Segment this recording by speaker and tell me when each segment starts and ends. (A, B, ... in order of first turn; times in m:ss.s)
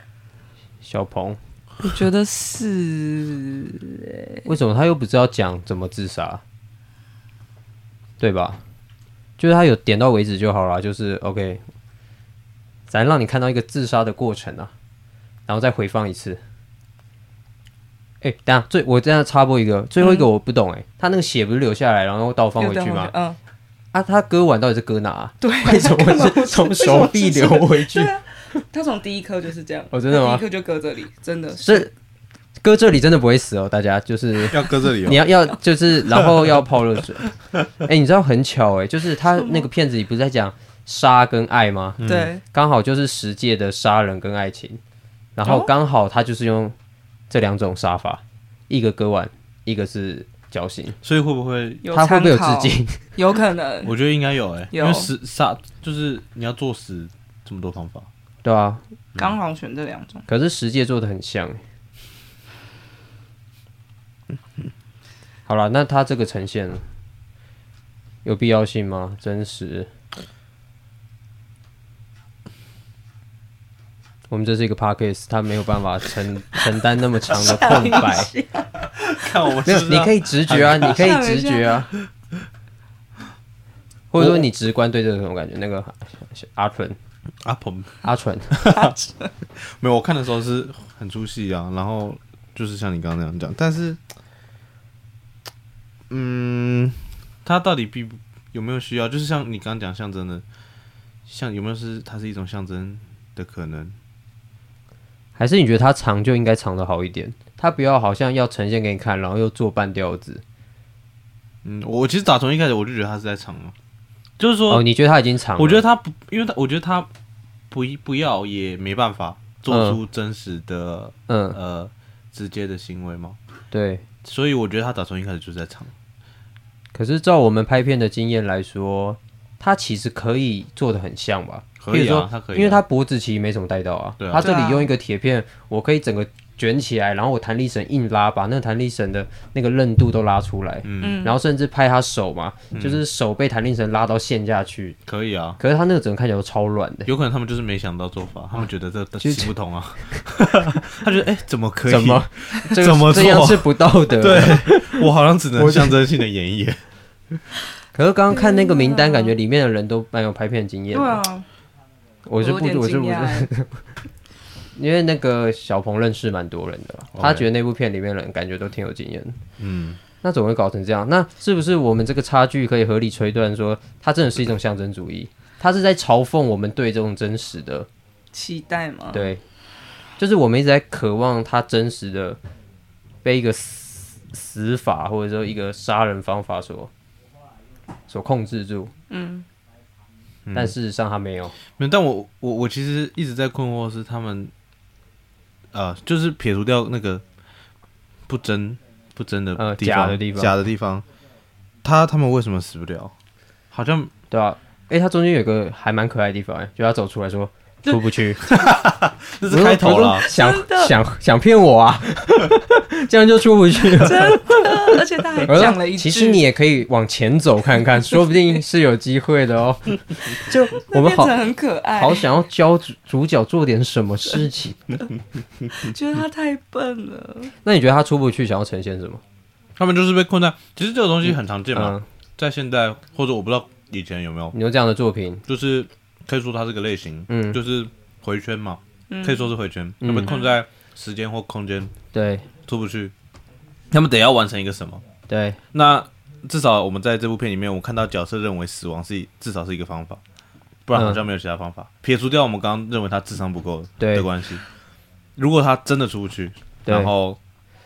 0:00.8-0:01.4 A
0:01.8-0:04.5 B
0:04.5-0:06.4 A
0:08.2-0:08.6 A
0:09.4-0:11.6 A
0:12.9-0:14.7 A
0:15.5-0:16.4 A
0:18.2-0:23.1 A
0:20.0-0:20.3 B
0:22.6-0:23.4 B
0:23.9-0:28.1 A
0:25.4-0:31.9 B
0:29.9-0:30.4 A
0:31.6-0:31.9 A
0:32.6-0:44.8 A
0:34.5-0:35.3 C
0:36.1-0:36.7 C
0:39.3-0:39.7 B
0:42.0-0:42.3 C
0:42.0-0:42.4 B
0:45.4-0:46.8 A
0:45.4-0:45.7 B
0:47.3-0:51.0 A
0:51.0-0:51.9 C
0:51.8-0:54.0 B
0:51.9-0:53.0 A
0:53.8-0:58.1 C
0:54.7-0:55.1 B
0:58.4-0:58.8 A
0:59.2-1:00.3 B
1:00.3-1:01.6 A
1:05.5-1:06.8 A
1:08.2-1:09.9 A
1:14.3-1:18.3 A
1:17.3-1:18.8 B
1:19.0-1:21.2 C
1:19.6-1:21.9 A
1:20.6-1:21.8 B
1:24.1-1:27.0 A
1:24.2-1:24.5 C
1:27.4-1:28.0 C
1:28.0-1:28.7 A
1:28.5-1:28.9 C
1:28.7-1:29.3 B
1:29.6-1:34.0 C
1:36.1-1:40.4 C
1:41.3-1:44.0 C
1:45.4-1:50.4 A
1:51.6-1:53.8 C
1:54.4-1:54.8 C
1:54.7-1:55.8 A
1:55.6-1:57.1 C
1:57.7-2:03.4 C
1:59.7-2:00.0 A
2:01.3-2:01.6 A
2:03.7-2:04.0 A
2:04.2-2:05.9 C
2:06.9-2:25.0 A
2:11.8-2:12.8 C
2:14.2-2:14.5 C
2:14.4-2:14.9 B
2:20.8-2:21.2 C
2:21.0-2:21.4 B
2:22.7-2:23.0 C
2:25.1-2:25.6 C
2:25.6-2:27.1 A
2:27.1-2:36.8 C
2:29.2-2:29.5 A
2:30.0-2:30.8 A
2:31.9-2:36.0 A
2:37.9-2:41.2 A
2:38.3-2:39.4 B
2:40.9-2:41.5 B
2:42.3-2:43.9 A
2:42.4-2:43.5 B
2:44.8-2:49.4 A
2:47.2-2:47.5 C
2:49.6-2:50.0 C
2:50.2-2:57.9 A
2:58.3-2:59.3 B
2:59.1-2:59.4 A
3:00.2-3:02.4 A
3:03.2-3:06.9 A
3:08.1-3:08.9 A
3:09.1-3:09.5 B
3:10.5-3:10.7 C
3:10.5-3:11.6 A
3:11.8-3:14.5 C
3:15.7-3:17.2 C
3:18.3-3:21.0 C
3:19.6-3:20.5 A
3:21.8-3:23.1 C
3:23.7-3:24.1 C
3:24.3-3:28.5 A
3:28.5-3:30.3 C
3:29.5-3:45.0 A
3:30.2-3:31.0 B
3:33.9-3:36.4 B
3:40.8-3:42.3 B
3:45.7-3:47.5 B
3:47.6-3:49.2 A
3:49.8-3:54.6 C
3:51.3-3:52.1 A
3:54.5-3:55.4 A
3:55.5-4:02.0 C
3:57.3-3:57.6 A
3:59.1-3:59.5 B
4:00.0-4:00.3 A
4:00.3-4:00.5 B
4:02.1-4:02.5 A
4:02.7-4:03.1 C
4:03.9-4:05.0 C
4:05.3-4:05.6 A
4:05.7-4:10.2 C
4:10.9-4:14.6 C
4:10.9-4:11.2 A
4:14.0-4:14.3 A
4:15.4-4:17.4 C
4:16.8-4:17.1 A